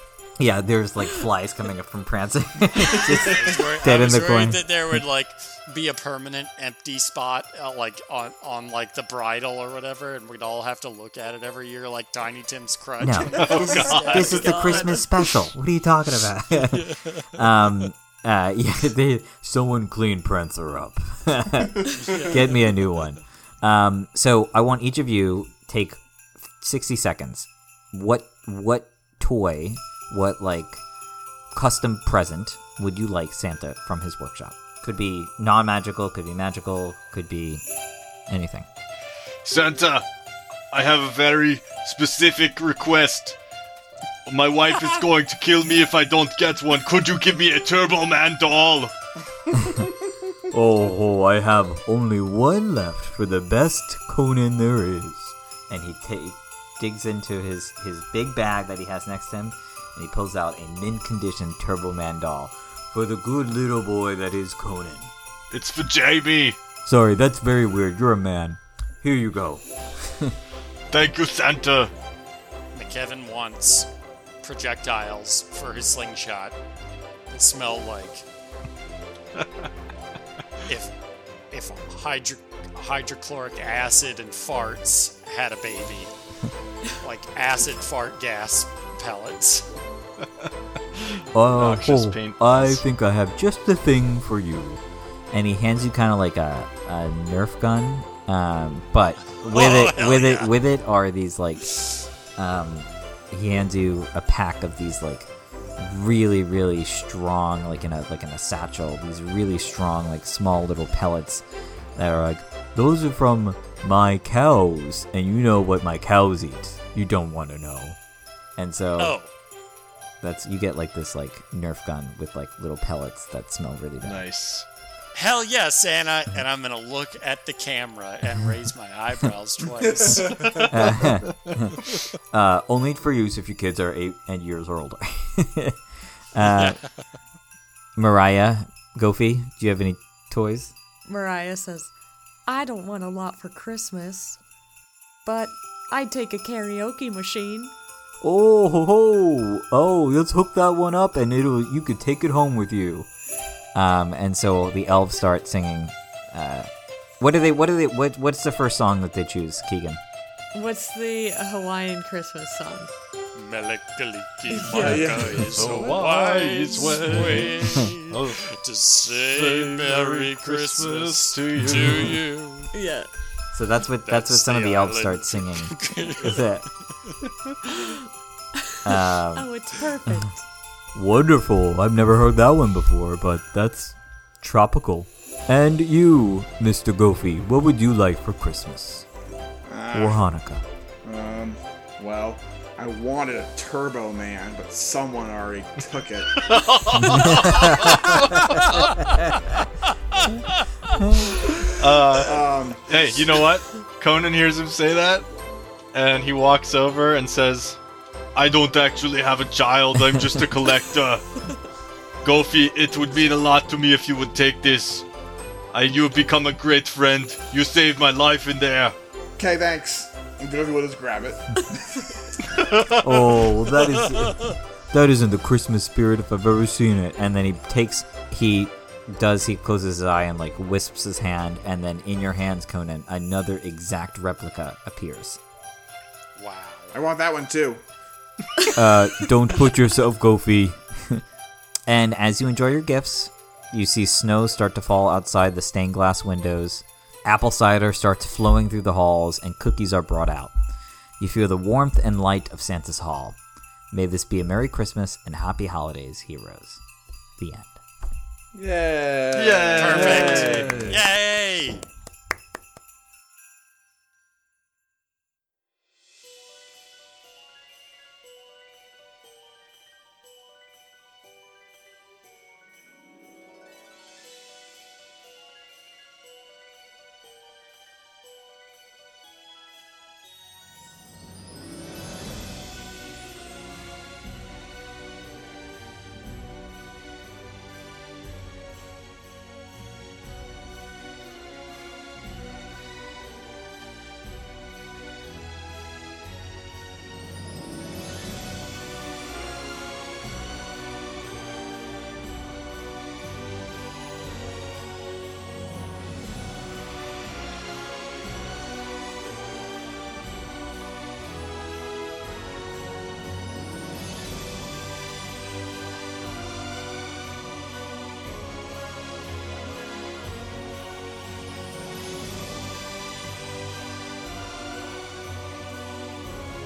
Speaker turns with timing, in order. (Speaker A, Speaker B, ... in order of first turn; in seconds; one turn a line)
Speaker A: 0.4-5.0
Speaker B: 2.9-15.0
Speaker A: 13.0-13.5
Speaker C: 13.3-14.3
Speaker D: 13.5-15.1
Speaker E: 13.6-13.9
Speaker A: 14.1-30.8
Speaker B: 16.5-17.3
Speaker B: 21.9-22.6
Speaker A: 31.5-37.6
Speaker A: 38.3-38.7
Speaker C: 39.4-40.0
Speaker C: 40.7-43.4
Speaker C: 44.3-48.9
Speaker A: 50.5-65.1
Speaker C: 65.5-66.6
Speaker A: 66.8-70.3
Speaker C: 70.9-71.9
Speaker B: 72.7-73.9
Speaker B: 74.4-76.5
Speaker B: 77.3-78.2
Speaker B: 80.7-80.9
Speaker B: 81.5-86.1
Speaker B: 87.0-89.7
Speaker C: 91.2-92.8
Speaker A: 91.3-101.7
Speaker B: 99.3-100.5
Speaker A: 102.3-111.4
Speaker A: 112.0-118.0
Speaker A: 118.6-119.2
Speaker B: 119.0-119.3
Speaker A: 120.2-124.2
Speaker C: 124.0-124.7
Speaker B: 125.1-130.4
Speaker E: 129.9-130.8
Speaker A: 130.7-131.7
Speaker A: 132.3-135.8
Speaker A: 136.3-136.8
Speaker B: 136.5-137.0
Speaker A: 137.9-140.7
Speaker D: 141.1-141.9
Speaker D: 142.4-144.4
Speaker D: 145.2-147.7
Speaker A: 148.2-153.1
Speaker A: 153.7-156.7
Speaker A: 157.2-160.0
Speaker D: 160.5-162.9
Speaker B: 163.3-172.7
Speaker D: 164.5-165.7
Speaker E: 164.7-165.9
Speaker C: 165.4-168.5
Speaker C: 169.2-172.2
Speaker D: 172.7-173.1
Speaker A: 173.5-176.7
Speaker B: 174.0-177.2
Speaker A: 178.8-179.5
Speaker D: 179.3-180.4
Speaker A: 180.9-189.1
Speaker E: 189.7-190.2
Speaker A: 189.9-190.6
Speaker E: 191.0-196.6
Speaker C: 196.4-199.0
Speaker A: 197.1-198.4
Speaker A: 199.2-199.5
Speaker B: 200.1-201.0
Speaker A: 201.0-201.4
Speaker E: 201.4-203.0
Speaker C: 201.5-205.2
Speaker C: 205.9-207.8
Speaker C: 208.3-211.2
Speaker C: 212.2-215.1
Speaker C: 215.7-218.9
Speaker E: 219.4-222.3
Speaker A: 223.0-235.4
Speaker B: 236.3-237.0
Speaker E: 236.9-237.8
Speaker A: 238.7-241.2
Speaker A: 241.9-250.5
Speaker A: 251.2-253.4
Speaker A: 253.9-256.8
Speaker A: 257.4-257.8
Speaker E: 258.5-261.0
Speaker C: 259.3-260.9
Speaker B: 259.8-261.8